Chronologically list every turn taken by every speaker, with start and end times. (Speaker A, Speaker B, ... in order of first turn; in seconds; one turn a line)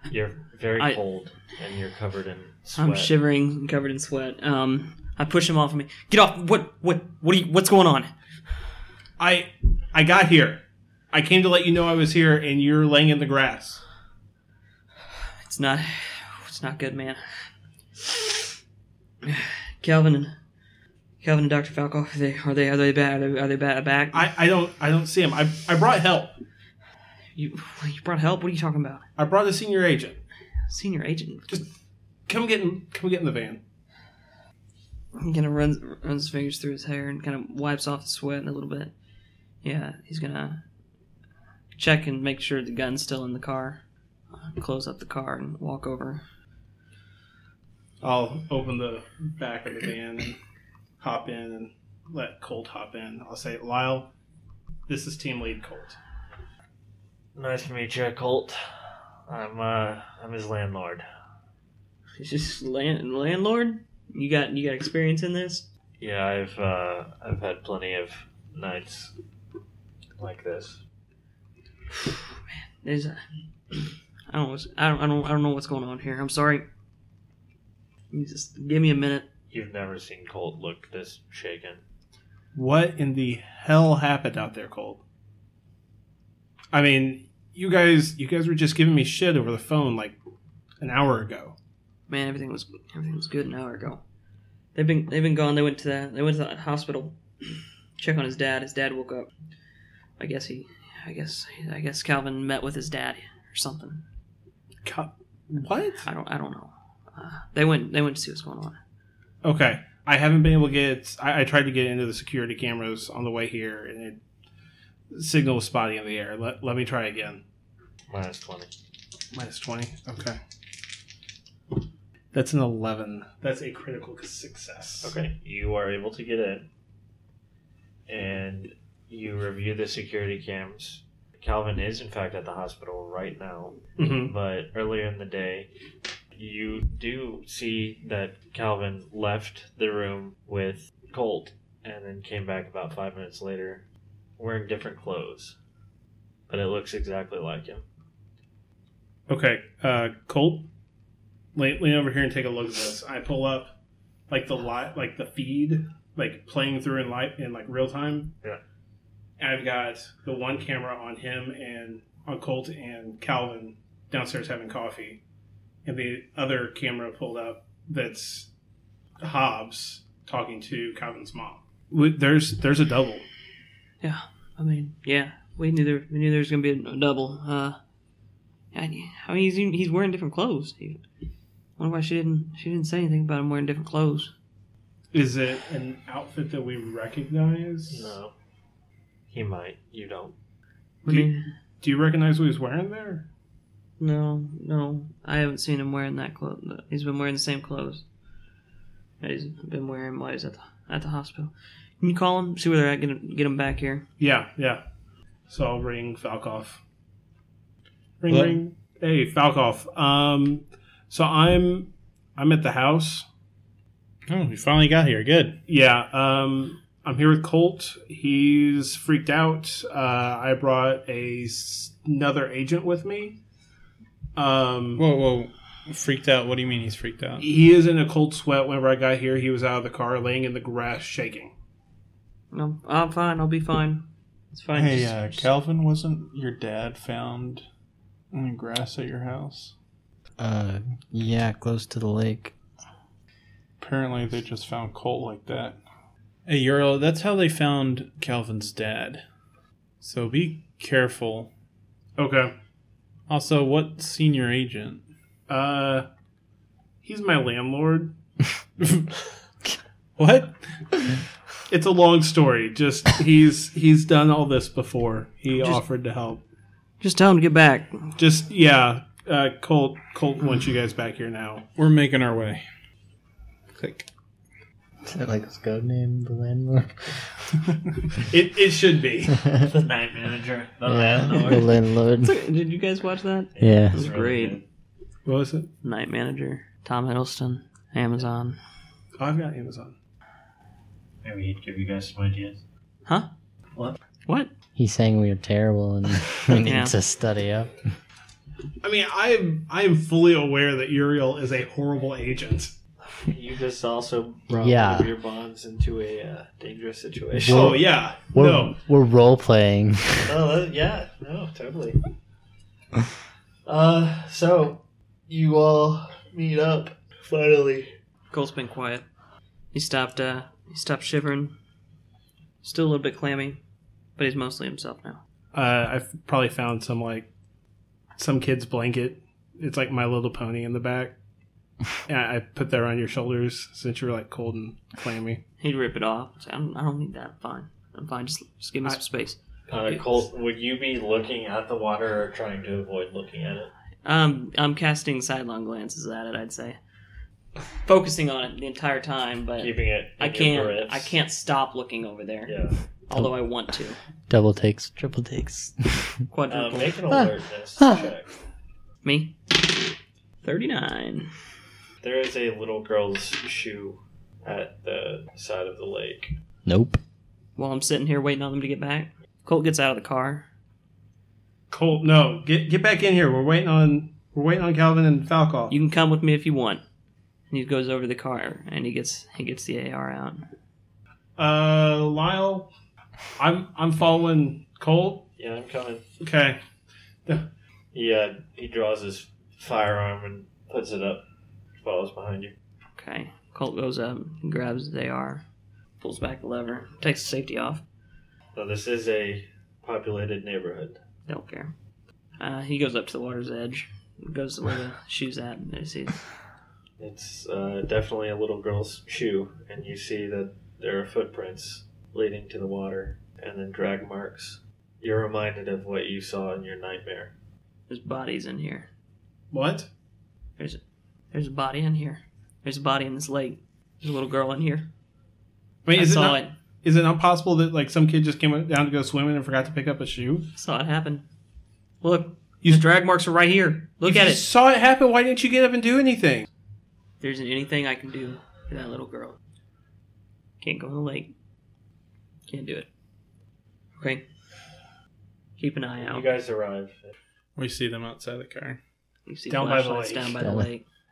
Speaker A: 0.1-3.1
Speaker B: 2.8-8.1
Speaker C: 9.2-13.8
Speaker B: 15.4-17.2
Speaker B: 19.3-20.4
Speaker B: 21.2-24.2
Speaker C: 24.1-26.4
Speaker B: 27.4-29.1
Speaker C: 29.2-30.2
Speaker B: 30.7-31.6
Speaker C: 32.3-33.6
Speaker B: 35.2-38.9
Speaker B: 39.6-40.6
Speaker B: 41.8-46.2
Speaker C: 48.0-50.4
Speaker C: 51.0-54.1
Speaker C: 54.9-56.0
Speaker A: 57.4-58.6
Speaker A: 59.3-61.0
Speaker B: 62.2-65.7
Speaker A: 66.0-69.1
Speaker A: 70.2-70.8
Speaker B: 71.9-73.2
Speaker B: 73.7-76.7
Speaker B: 78.1-79.3
Speaker A: 79.5-81.8
Speaker C: 82.5-85.0
Speaker C: 86.7-90.2
Speaker C: 90.8-91.6
Speaker B: 92.1-94.0
Speaker B: 94.8-99.3
Speaker B: 100.2-104.0
Speaker C: 104.8-106.1
Speaker B: 106.0-108.8
Speaker C: 109.4-114.2
Speaker C: 115.1-117.4
Speaker A: 118.1-118.7
Speaker C: 119.3-120.4
Speaker C: 122.3-125.2
Speaker A: 125.0-126.7
Speaker A: 128.1-135.7
Speaker C: 134.0-134.3
Speaker A: 136.3-143.9
Speaker A: 144.4-145.6
Speaker A: 146.5-147.8
Speaker C: 149.3-150.7
Speaker C: 151.6-153.8
Speaker C: 154.3-158.3
Speaker C: 159.4-165.2
Speaker C: 165.8-168.5
Speaker C: 169.2-173.2
Speaker B: 174.0-177.8
Speaker B: 178.7-181.0
Speaker B: 181.8-184.3
Speaker C: 185.1-188.2
Speaker A: 187.9-188.3
Speaker A: 189.3-190.3
Speaker B: 191.1-191.5
Speaker C: 191.1-193.3
Speaker B: 194.0-198.1
Speaker B: 199.2-204.1
Speaker C: 204.2-204.8
Speaker C: 205.5-206.8
Speaker C: 208.2-213.3
Speaker D: 208.3-208.6
Speaker D: 214.3-215.6
Speaker C: 215.7-223.4
Speaker C: 224.4-225.0
Speaker D: 225.0-227.5
Speaker C: 227.4-231.5
Speaker B: 232.5-235.5
Speaker D: 234.7-237.7
Speaker D: 238.3-239.8
Speaker E: 240.4-242.5
Speaker D: 243.8-245.8
Speaker D: 246.5-249.2
Speaker D: 250.0-251.5
Speaker C: 252.2-252.5
Speaker D: 253.3-255.0
Speaker C: 255.5-256.1
Speaker C: 257.0-258.1
Speaker D: 258.8-259.1
Speaker D: 260.2-261.2
Speaker C: 261.7-266.4
Speaker B: 267.0-268.1
Speaker C: 268.2-271.6
Speaker D: 271.8-272.6
Speaker D: 273.8-274.1
Speaker E: 275.0-277.3
Speaker C: 278.3-279.5
Speaker A: 279.6-281.8
Speaker E: 280.9-282.4
Speaker B: 281.3-281.6
Speaker B: 282.2-284.6
Speaker A: 283.5-284.6
Speaker E: 283.6-284.1
Speaker C: 285.2-285.7
Speaker B: 285.8-288.6
Speaker C: 289.2-289.9
Speaker A: 291.2-292.6
Speaker B: 293.1-293.3
Speaker B: 294.3-294.5
Speaker E: 294.8-297.7
Speaker B: 296.6-296.9
Speaker C: 298.8-302.7
Speaker A: 303.2-307.8
Speaker E: 304.5-305.1
Speaker E: 307.4-310.4
Speaker C: 307.5-308.8
Speaker A: 310.3-312.0
Speaker A: 313.7-317.9
Speaker B: 318.3-319.1
Speaker B: 319.7-321.6
Speaker B: 322.6-323.6
Speaker B: 324.2-325.2
Speaker C: 325.5-327.3
Speaker C: 328.2-331.2
Speaker C: 332.1-335.4
Speaker B: 335.6-339.4
Speaker A: 339.7-343.7
Speaker B: 344.0-346.8
Speaker B: 347.8-354.0
Speaker A: 349.6-351.2
Speaker A: 352.4-352.8
Speaker E: 354.3-356.2
Speaker B: 356.3-357.0
Speaker A: 356.5-358.3
Speaker E: 357.1-358.1
Speaker B: 359.0-359.4
Speaker B: 360.4-361.3
Speaker A: 362.0-366.4
Speaker E: 366.6-367.0
Speaker B: 367.6-370.5
Speaker C: 371.7-375.8
Speaker B: 375.7-376.8
Speaker B: 377.5-380.5
Speaker C: 381.4-382.7
Speaker C: 383.4-385.3
Speaker A: 385.4-386.1
Speaker C: 386.2-386.6
Speaker A: 387.9-391.2
Speaker A: 391.8-392.6
Speaker B: 393.0-395.4
Speaker B: 396.0-397.8
Speaker A: 398.5-401.0
Speaker B: 401.3-401.7
Speaker B: 402.4-406.2
Speaker A: 407.0-417.3
Speaker B: 417.9-418.9
Speaker C: 419.5-419.9
Speaker B: 420.6-424.9
Speaker C: 425.9-430.5
Speaker B: 425.9-426.5
Speaker B: 430.6-431.2
Speaker B: 432.0-434.5
Speaker C: 434.0-436.5
Speaker B: 437.2-439.4
Speaker B: 440.6-441.3
Speaker B: 442.5-442.9
Speaker B: 443.9-444.3
Speaker B: 445.6-446.3
Speaker A: 446.0-447.1
Speaker D: 447.6-448.8
Speaker B: 449.3-450.9
Speaker C: 449.5-450.5
Speaker E: 450.4-450.7